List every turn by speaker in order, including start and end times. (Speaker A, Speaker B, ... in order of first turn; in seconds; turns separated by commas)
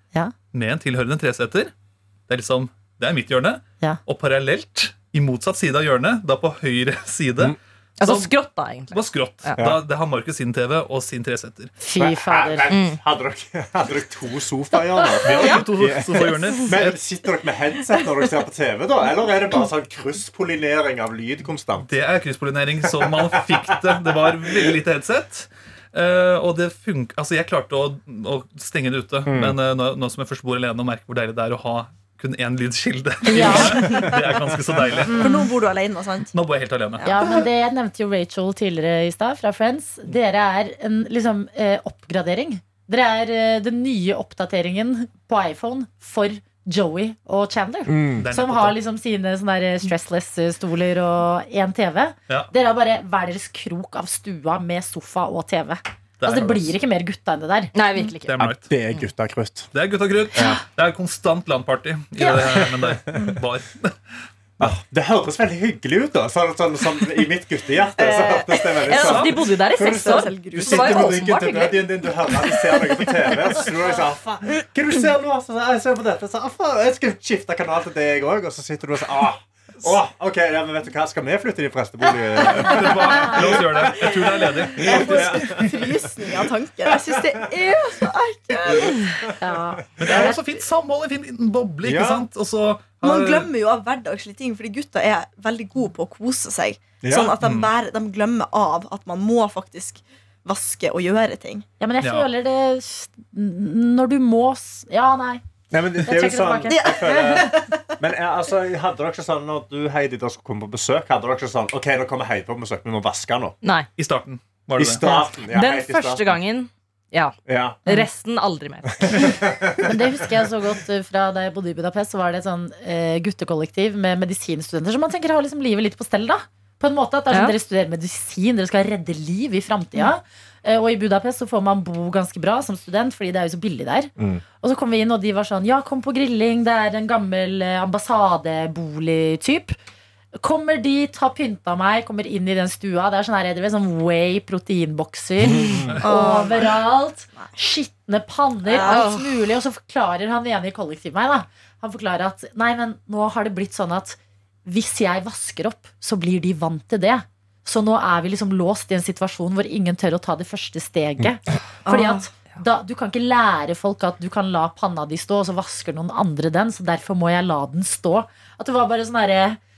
Speaker A: 0.5-1.7, Speaker A: 2.3-8.3, Speaker B: 8.0-9.6, Speaker A: 8.9-11.7, Speaker C: 11.8-12.7, Speaker D: 12.0-21.9, Speaker B: 12.7-13.0, Speaker A: 15.2-17.0, Speaker A: 21.8-35.5, Speaker D: 22.8-24.7, Speaker D: 29.3-29.6, Speaker C: 33.3-34.0, Speaker E: 33.4-34.1, Speaker C: 35.1-35.5, Speaker E: 35.1-36.3, Speaker A: 36.3-37.1, Speaker C: 37.0-57.7, Speaker E: 37.1-37.4, Speaker D: 47.9-48.3, Speaker A: 48.2-48.8, Speaker A: 56.2-56.7, Speaker B: 57.7-58.3, Speaker A: 58.3-58.7, Speaker D: 58.4-59.7, Speaker A: 59.7-64.0, Speaker D: 60.3-60.6, Speaker C: 62.2-62.5, Speaker D: 64.6-87.5, Speaker E: 68.0-71.2, Speaker B: 68.9-72.1, Speaker A: 82.5-85.6, Speaker E: 84.8-89.3, Speaker D: 88.7-89.1, Speaker C: 89.4-90.4, Speaker A: 90.0-93.5, Speaker D: 90.0-90.3, Speaker D: 91.8-92.3, Speaker E: 93.0-101.7, Speaker D: 97.0-97.3, Speaker A: 97.4-97.7, Speaker C: 101.8-105.4, Speaker A: 102.0-102.3, Speaker D: 105.7-113.5, Speaker C: 106.0-107.4, Speaker E: 106.7-107.8, Speaker B: 113.6-113.9, Speaker A: 114.0-115.0, Speaker D: 114.8-116.2, Speaker B: 115.5-119.3, Speaker D: 117.5-117.8, Speaker D: 119.0-120.3, Speaker C: 119.8-139.8, Speaker D: 134.2-134.4, Speaker C: 140.4-169.6, Speaker D: 145.5-146.0, Speaker E: 146.0-146.8, Speaker E: 148.7-149.1, Speaker B: 148.8-149.2, Speaker E: 161.9-162.2